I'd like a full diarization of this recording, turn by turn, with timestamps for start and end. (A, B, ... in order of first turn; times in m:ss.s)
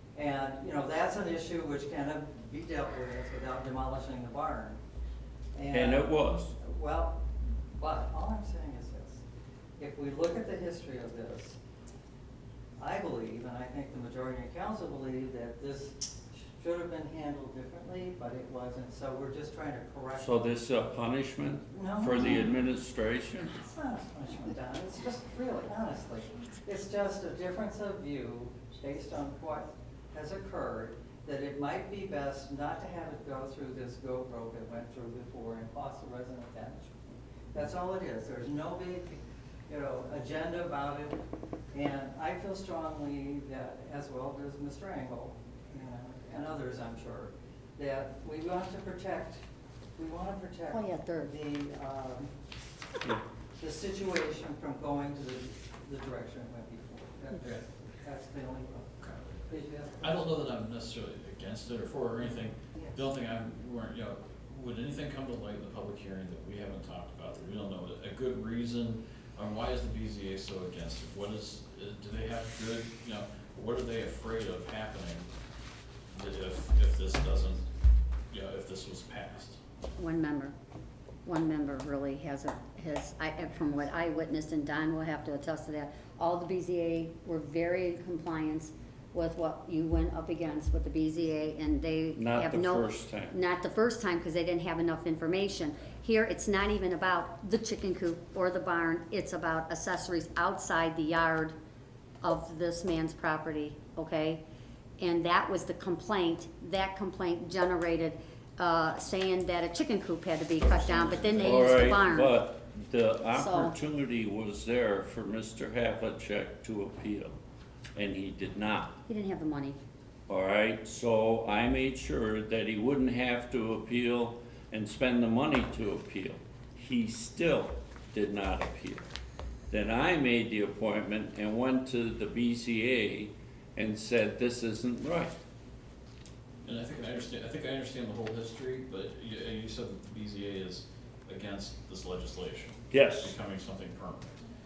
0:00.1-0:04.8 A
0:05.5-0:09.2 A
0:05.7-0:06.5 B
0:09.8-0:11.6 A
0:12.8-0:20.5 A
0:20.2-0:23.6 B
0:21.7-0:22.6 A
0:22.2-0:22.4 C
0:23.6-0:37.0 A
0:37.5-0:41.2 A
0:41.7-0:49.4 A
0:50.0-0:52.3 A
0:50.7-0:51.3 C
0:53.6-0:58.9 A
0:59.0-0:59.4 D
0:59.5-1:00.3 A
1:00.0-1:15.3 D
1:16.1-1:17.6 D
1:18.3-1:19.6 D
1:20.0-1:20.5 C
1:21.2-1:41.5 C
1:32.2-1:33.4 B
1:42.2-1:44.4 C
1:45.0-1:52.4 C
1:50.6-1:51.5 D
1:51.4-1:57.4 B
1:53.3-1:53.7 C
1:57.9-1:59.0 B
1:59.1-1:59.8 C
2:00.3-2:09.0 B
2:09.7-2:15.4 B
2:16.6-2:24.4 D
2:22.9-2:23.3 B